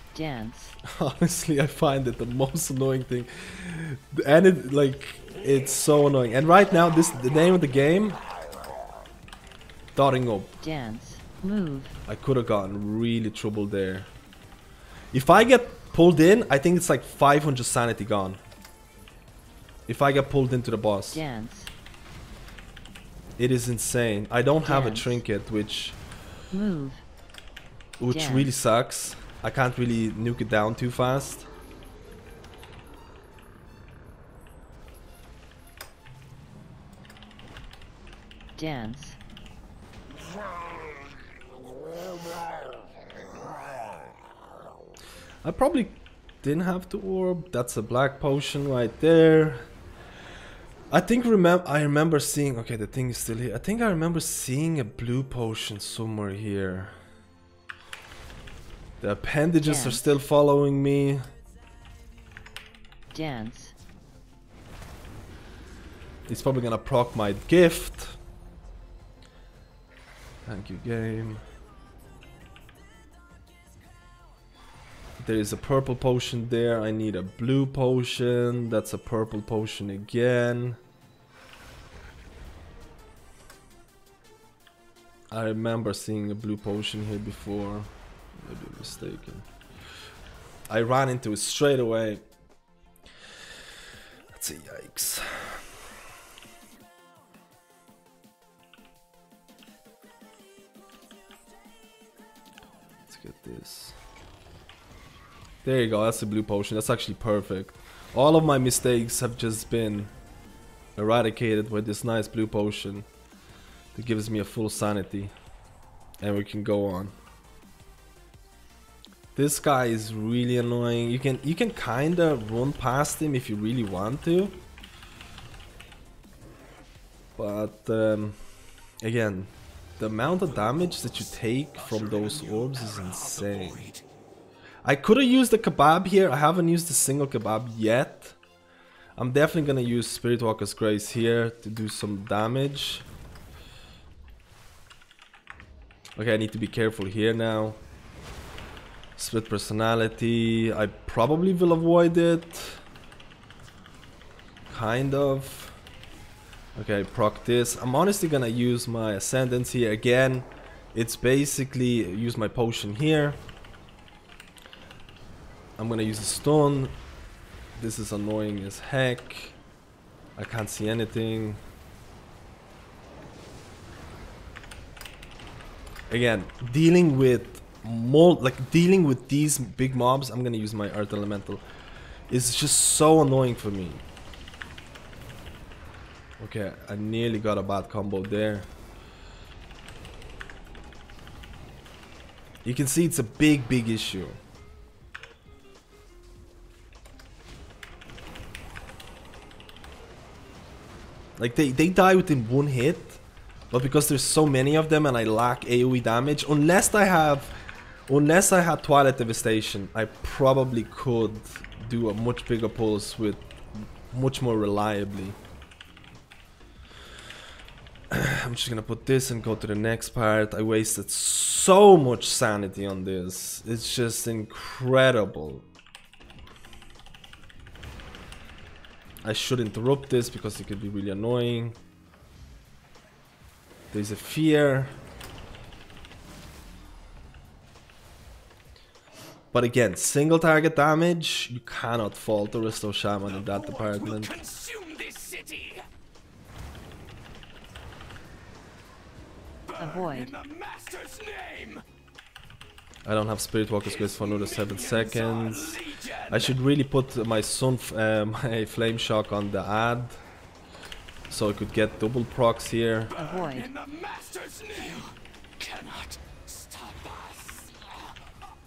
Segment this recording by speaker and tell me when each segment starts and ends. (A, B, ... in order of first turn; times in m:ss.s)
0:00.1-0:00.8 A
0:00.8-0:08.2 B
0:10.0-0:10.5 B
0:10.6-0:12.0 A
0:12.1-0:14.1 B
0:15.1-0:18.4 B
0:19.9-0:21.2 B
0:21.1-0:21.7 A
0:23.4-0:26.0 B
0:24.6-0:25.2 A
0:26.5-0:27.0 A
0:28.0-0:31.5 B
0:28.1-0:28.5 A
0:38.6-0:39.2 A
0:45.4-0:49.6 B
0:50.9-0:57.0 B
0:59.0-1:01.3 B
0:59.6-1:00.1 A
1:03.1-1:03.7 A
1:06.3-1:08.2 B
1:10.5-1:11.4 B
1:15.2-1:20.8 B
1:25.3-1:29.4 B
1:30.7-1:32.2 B
1:34.3-1:35.6 B
1:43.1-1:44.0 B
1:45.6-1:50.1 B
1:51.0-1:53.1 B
1:54.0-1:55.3 B
1:56.2-1:57.1 B
1:59.4-2:04.6 B
2:07.4-2:08.4 B
2:09.0-2:13.8 B
2:10.5-2:14.0 C
2:14.8-2:18.4 B
2:19.2-2:23.1 B
2:26.2-2:27.8 B
2:29.2-2:32.8 B
2:34.7-2:35.8 B
2:36.8-2:43.4 B
2:45.8-2:47.0 B
2:47.8-2:49.6 B
2:50.4-2:51.6 B
2:56.1-3:01.6 B
3:02.3-3:04.0 B
3:06.4-3:08.7 B
3:12.6-3:14.4 B
3:21.4-3:27.5 B
3:28.1-3:33.5 B
3:34.1-3:35.4 B
3:38.1-3:45.7 B
3:49.2-3:51.8 B
3:53.9-3:55.0 B
3:59.5-4:04.3 B
4:03.2-4:05.8 C
4:09.7-4:11.8 C
4:09.8-4:10.3 A
4:13.0-4:20.2 B
4:13.8-4:16.6 C
4:21.3-4:23.1 B
4:23.1-4:28.1 C
4:23.2-4:23.7 A